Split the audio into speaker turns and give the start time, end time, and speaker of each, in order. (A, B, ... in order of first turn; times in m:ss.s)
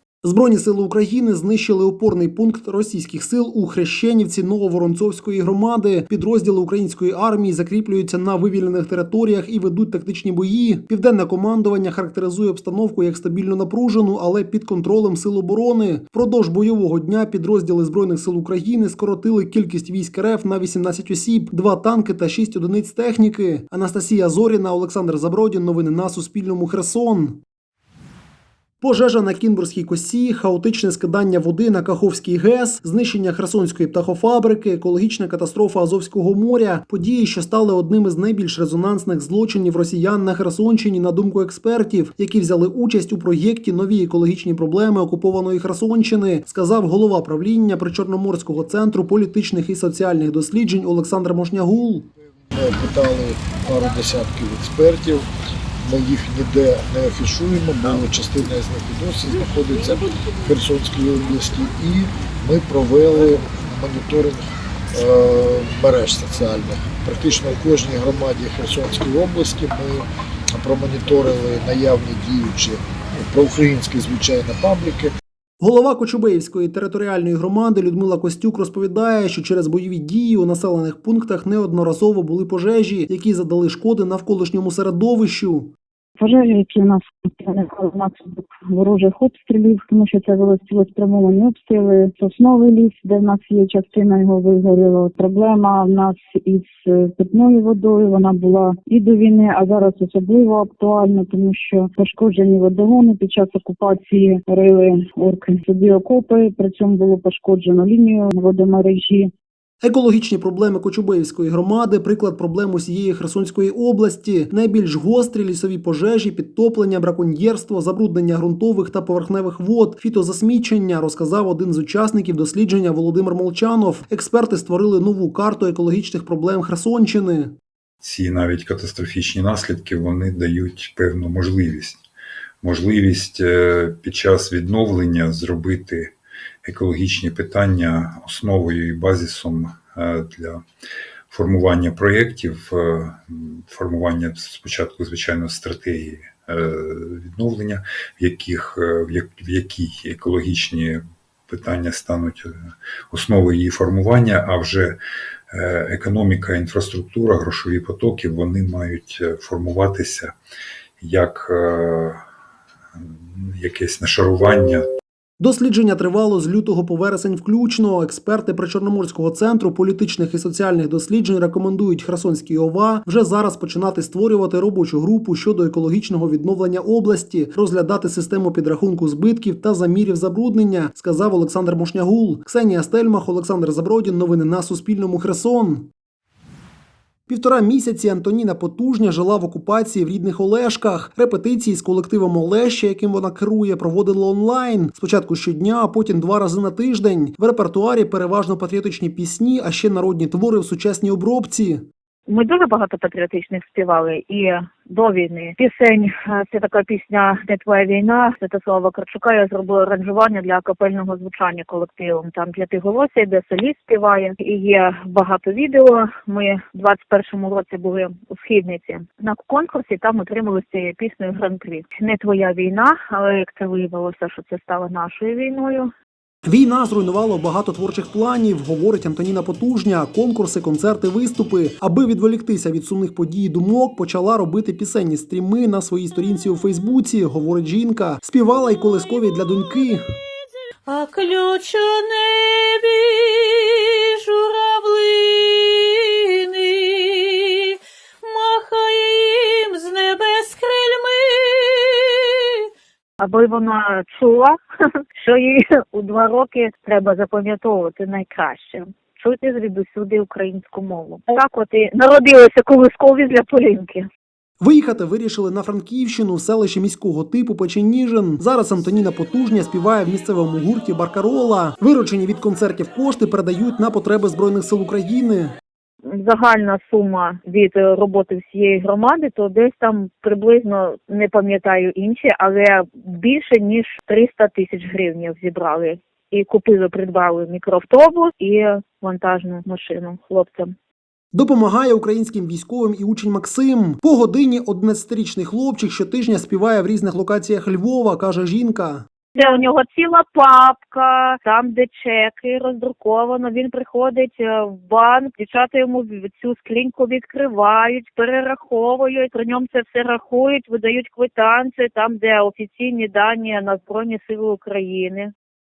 0:00.2-0:27.4 A
0:28.8-0:52.1 A
0:52.5-0:55.3 B
0:55.8-1:15.1 B
1:15.6-1:25.7 A
1:26.2-1:49.3 C
1:49.8-2:07.5 A
2:08.0-2:12.0 D
2:12.6-2:16.1 D
2:16.6-2:20.6 D
2:21.3-2:32.5 D
2:33.1-2:35.0 D
2:35.5-2:40.3 D
2:41.0-2:42.2 D
2:43.1-2:44.8 D
2:45.4-3:05.9 A
3:07.3-3:21.8 A
3:22.3-3:45.9 E
3:46.5-4:00.0 A
4:00.9-4:07.5 F
4:08.3-4:12.1 F
4:13.2-4:14.6 E
4:15.2-4:24.0 E
4:24.6-4:35.6 A
4:36.1-4:50.7 E
4:51.3-4:59.0 A
4:59.3-5:15.3 E